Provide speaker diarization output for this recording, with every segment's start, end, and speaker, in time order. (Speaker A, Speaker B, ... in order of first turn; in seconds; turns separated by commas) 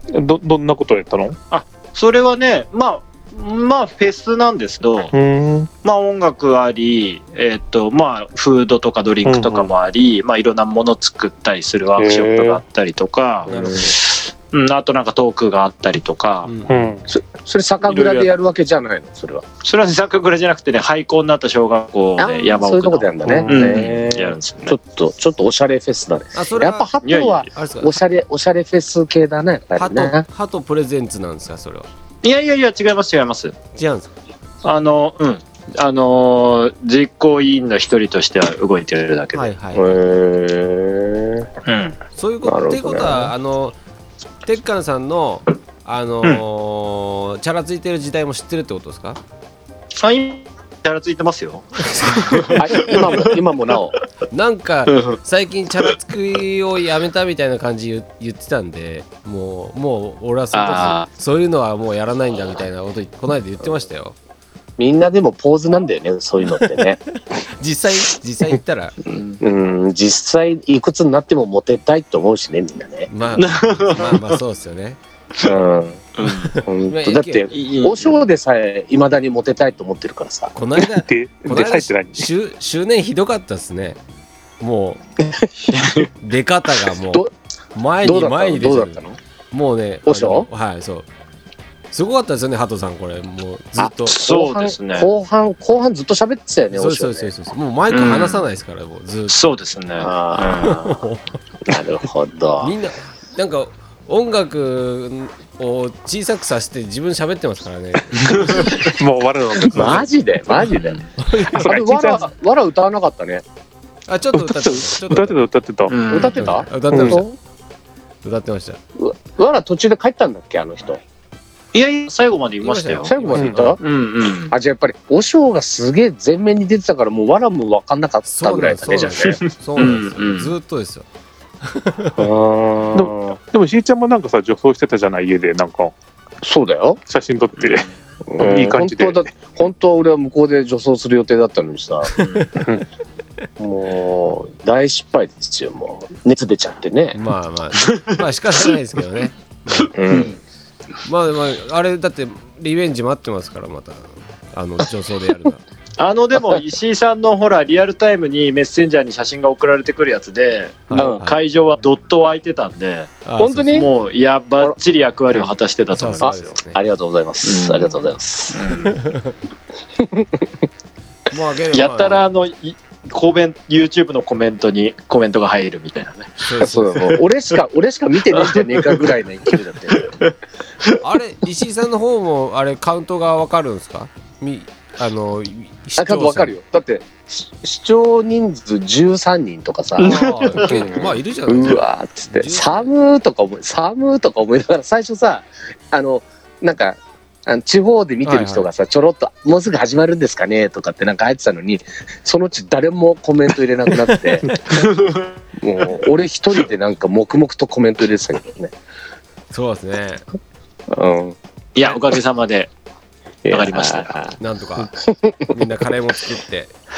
Speaker A: 0.1-1.4, Speaker B: 1.5-5.1, Speaker A: 5.1-5.7, Speaker B: 5.8-16.5, Speaker A: 9.2-9.7, Speaker A: 12.0-12.6, Speaker C: 13.5-13.9, Speaker D: 13.5-13.8, Speaker C: 16.4-16.9, Speaker A: 16.7-17.0, Speaker D: 17.1-19.4, Speaker B: 17.8-18.3, Speaker B: 19.6-24.8, Speaker D: 22.2-30.2, Speaker A: 23.2-23.8, Speaker C: 26.3-26.9, Speaker B: 27.0-27.4, Speaker C: 27.5-27.9, Speaker C: 29.8-31.9, Speaker B: 32.2-33.5, Speaker C: 33.7-34.1, Speaker B: 34.6-39.5, Speaker C: 39.3-39.9, Speaker D: 39.7-41.5, Speaker B: 41.6-42.0, Speaker C: 42.1-43.8, Speaker D: 42.4-43.3, Speaker C: 44.4-49.2, Speaker B: 50.0-53.3, Speaker C: 51.8-52.6, Speaker D: 52.5-54.0, Speaker C: 54.3-64.2, Speaker B: 54.9-55.2, Speaker B: 60.5-61.1, Speaker D: 64.8-67.0, Speaker C: 67.2-68.9, Speaker B: 69.1-69.4, Speaker D: 69.4-73.1, Speaker C: 73.1-75.0, Speaker B: 73.4-74.4, Speaker D: 75.4-76.0, Speaker B: 76.2-76.5, Speaker C: 76.2-77.5, Speaker D: 76.6-80.5, Speaker B: 77.5-78.2, Speaker C: 80.5-84.0, Speaker A: 80.8-82.3, Speaker C: 84.6-85.0, Speaker B: 85.6-86.1, Speaker C: 86.2-89.0, Speaker D: 88.0-89.2, Speaker C: 89.5-91.1, Speaker D: 90.0-90.5, Speaker C: 91.9-94.2, Speaker D: 93.8-97.3, Speaker B: 94.0-95.1, Speaker C: 96.7-99.5, Speaker B: 97.9-98.4, Speaker B: 99.3-100.8, Speaker D: 100.0-101.1, Speaker C: 100.6-101.4, Speaker D: 101.6-102.7, Speaker C: 102.6-108.7, Speaker B: 108.1-108.9, Speaker A: 109.0-110.1, Speaker D: 109.6-113.4, Speaker B: 110.8-111.1, Speaker C: 111.2-111.8, Speaker A: 111.5-112.3, Speaker C: 114.1-115.4, Speaker A: 114.3-116.0, Speaker B: 115.9-116.5, Speaker D: 116.1-117.3, Speaker C: 116.3-117.3, Speaker A: 116.9-117.2, Speaker C: 118.2-118.8, Speaker D: 119.0-121.0, Speaker B: 121.7-123.2, Speaker C: 122.6-123.8, Speaker D: 123.0-123.8, Speaker B: 123.8-124.5, Speaker D: 124.5-129.4, Speaker C: 128.3-131.1, Speaker B: 129.2-130.5, Speaker C: 131.6-132.3, Speaker D: 132.2-133.3, Speaker A: 132.9-135.9, Speaker D: 136.4-137.0, Speaker A: 137.1-139.2, Speaker B: 137.6-137.9, Speaker D: 138.3-142.2, Speaker B: 142.2-142.5, Speaker D: 143.6-147.2, Speaker C: 147.1-150.0, Speaker B: 147.8-148.2, Speaker D: 149.9-150.4, Speaker B: 150.1-150.4, Speaker C: 151.0-155.6, Speaker B: 156.0-166.5, Speaker C: 160.9-161.4, Speaker D: 160.9-161.2, Speaker C: 163.2-163.8, Speaker D: 163.4-163.9, Speaker C: 165.9-166.8, Speaker D: 166.2-168.6, Speaker B: 167.4-168.0, Speaker B: 168.5-169.0, Speaker C: 168.8-169.3, Speaker D: 170.0-170.5, Speaker C: 171.3-172.2, Speaker B: 171.7-176.3, Speaker C: 176.4-177.2, Speaker D: 176.6-180.1, Speaker B: 178.3-179.2, Speaker B: 179.9-181.0, Speaker C: 181.0-186.5, Speaker D: 186.0-204.5, Speaker B: 190.0-191.1, Speaker C: 190.0-192.9, Speaker C: 198.2-198.7, Speaker C: 203.9-204.8, Speaker B: 204.7-205.3, Speaker D: 205.6-208.7, Speaker C: 209.5-210.2, Speaker D: 210.9-211.4, Speaker B: 211.7-212.7, Speaker D: 213.4-214.4, Speaker B: 213.5-214.2, Speaker C: 214.4-214.9, Speaker D: 214.9-215.5, Speaker C: 215.5-216.7